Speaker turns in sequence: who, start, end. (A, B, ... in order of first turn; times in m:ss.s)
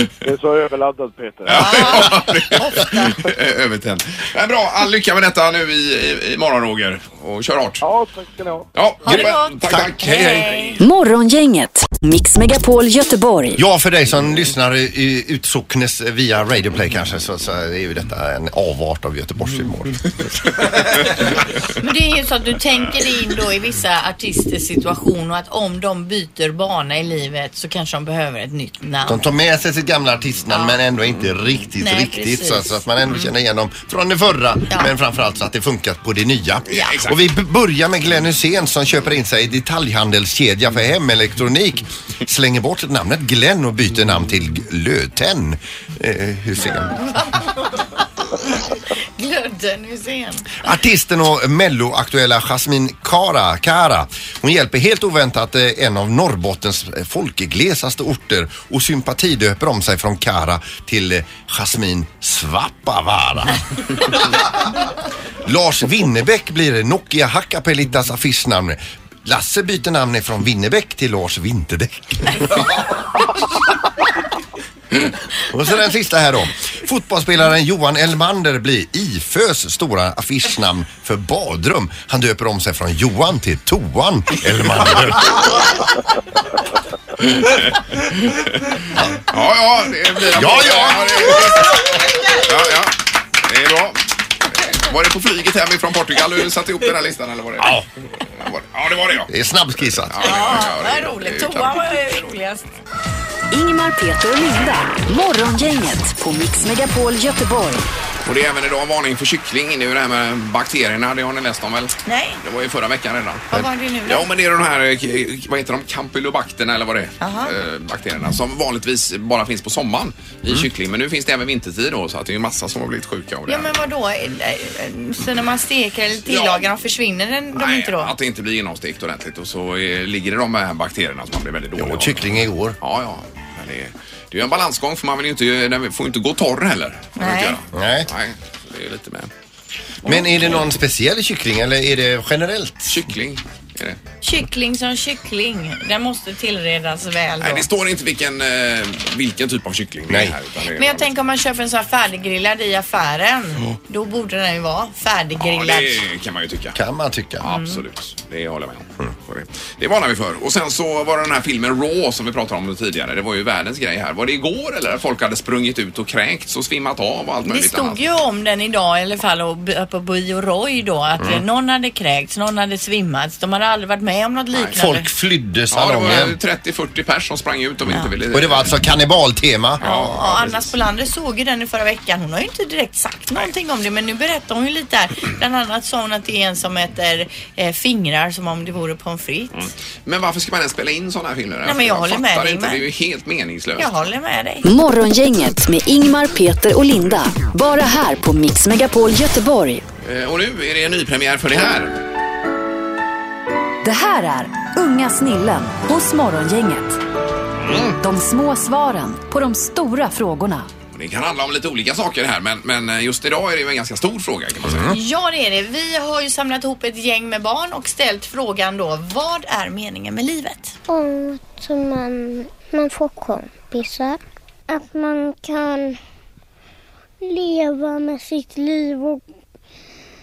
0:00.2-0:02.0 A
0:01.5-0:03.2 B
0:01.5-0:07.8 C
0:07.8-0:08.7 A
0:08.7-0:10.8 C
0:09.1-0:10.8 B
0:10.8-0:13.6 D
0:13.6-0:20.2 E
0:21.8-0:29.3 B
0:29.1-0:47.0 E
0:30.5-0:30.8 B
0:31.8-0:33.3 B
0:36.7-0:37.2 C
0:36.7-0:37.1 B
0:47.1-0:48.0 B
0:48.6-0:50.6 B
0:50.6-1:04.6 E
1:05.4-1:12.7 E
1:15.4-1:25.7 E
1:27.2-1:28.7 C
1:29.3-1:34.0 C
1:30.3-1:31.6 E
1:34.5-1:39.3 C
1:39.3-1:40.3 E
1:40.1-1:41.8 C
1:40.2-1:42.7 B
1:43.5-1:47.8 D
1:48.2-2:03.8 C
1:52.0-1:52.4 B
1:53.5-1:54.3 B
1:57.2-1:57.6 B
2:03.5-2:08.1 B
2:06.3-2:06.7 C
2:07.5-2:19.3 C
2:11.8-2:12.8 E
2:17.2-2:17.6 B
2:17.7-2:18.1 E
2:20.0-2:20.5 B
2:20.0-2:23.0 E
2:22.9-2:24.0 C
2:24.2-2:27.7 B
2:27.4-2:31.1 C
2:30.1-2:30.4 E
2:30.8-2:36.0 B
2:35.4-2:36.8 C
2:36.8-2:37.5 E
2:37.4-2:48.0 C
2:37.5-2:37.8 B
2:47.4-2:55.1 B
2:54.8-2:56.4 E
2:55.7-2:58.7 C
2:58.3-2:59.9 E
2:59.8-3:00.6 C
2:59.8-3:09.7 B
3:09.5-3:13.9 C
3:11.6-3:12.8 B
3:13.8-3:14.7 B
3:14.6-3:19.8 D
3:20.0-3:22.0 C
3:23.8-3:27.0 D
3:27.6-3:28.0 C
3:27.8-3:30.7 D
3:31.0-3:35.0 C
3:34.7-3:35.0 E
3:34.9-3:40.7 B
3:40.9-3:46.0 F
3:47.2-3:49.2 F